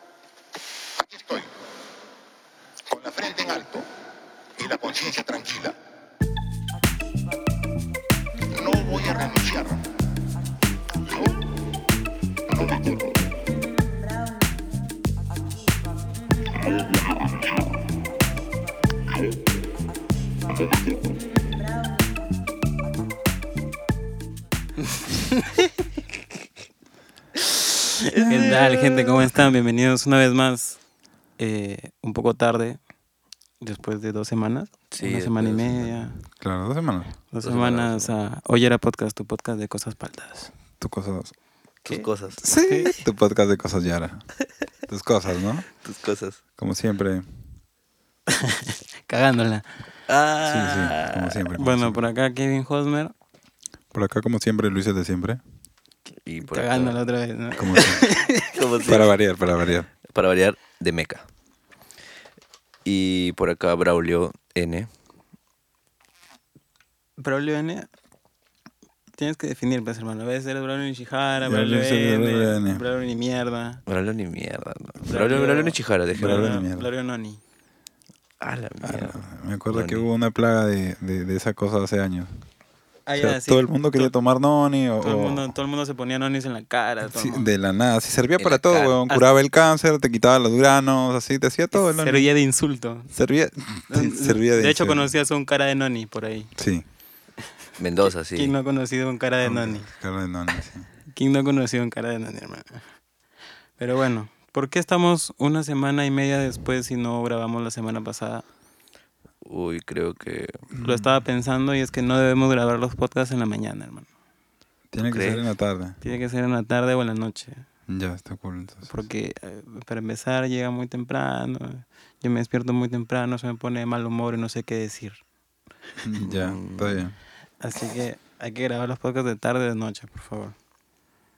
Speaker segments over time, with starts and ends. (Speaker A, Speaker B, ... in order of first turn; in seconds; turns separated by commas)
Speaker A: 1.0-1.5, Speaker A: 2.9-3.8, Speaker A: 4.6-5.8, Speaker A: 8.5-9.8, Speaker A: 12.5-13.1, Speaker B: 28.0-30.8, Speaker C: 28.3-29.2, Speaker B: 31.4-32.8, Speaker B: 33.6-36.2, Speaker C: 34.9-36.0, Speaker D: 36.4-37.1, Speaker B: 37.3-40.5, Speaker C: 37.4-38.1, Speaker D: 40.8-41.3, Speaker B: 41.8-42.9, Speaker C: 41.9-42.4, Speaker D: 42.4-44.2, Speaker D: 44.9-45.6, Speaker C: 45.8-46.4, Speaker D: 46.6-47.2, Speaker B: 48.3-49.6, Speaker C: 50.1-51.4, Speaker D: 50.4-52.0, Speaker B: 51.5-53.1, Speaker D: 53.9-55.4, Speaker C: 56.2-57.0, Speaker B: 56.5-58.5, Speaker D: 57.6-58.0, Speaker C: 58.5-59.1, Speaker D: 58.9-59.9, Speaker C: 60.1-61.2, Speaker C: 62.8-64.9, Speaker B: 67.2-67.9, Speaker B: 69.2-73.8, Speaker D: 71.4-72.8, Speaker C: 73.9-76.6, Speaker B: 75.0-77.4, Speaker D: 76.1-76.9, Speaker C: 78.4-80.0, Speaker D: 78.8-82.3, Speaker B: 83.1-84.1, Speaker D: 83.2-85.5, Speaker B: 85.0-87.5, Speaker D: 87.0-92.3, Speaker C: 88.4-89.0, Speaker B: 91.7-93.1, Speaker D: 93.1-95.1, Speaker B: 93.9-96.5, Speaker D: 96.5-96.8, Speaker C: 97.8-98.5, Speaker B: 98.0-99.9, Speaker D: 99.4-100.9, Speaker B: 101.1-102.8, Speaker B: 103.8-108.5, Speaker C: 109.4-110.6, Speaker D: 110.7-111.1, Speaker B: 110.8-114.1, Speaker D: 114.9-116.0, Speaker C: 115.0-115.4, Speaker B: 116.0-117.6, Speaker D: 117.9-118.9, Speaker B: 118.9-125.2, Speaker D: 126.0-127.1, Speaker C: 126.2-127.0, Speaker B: 127.6-130.5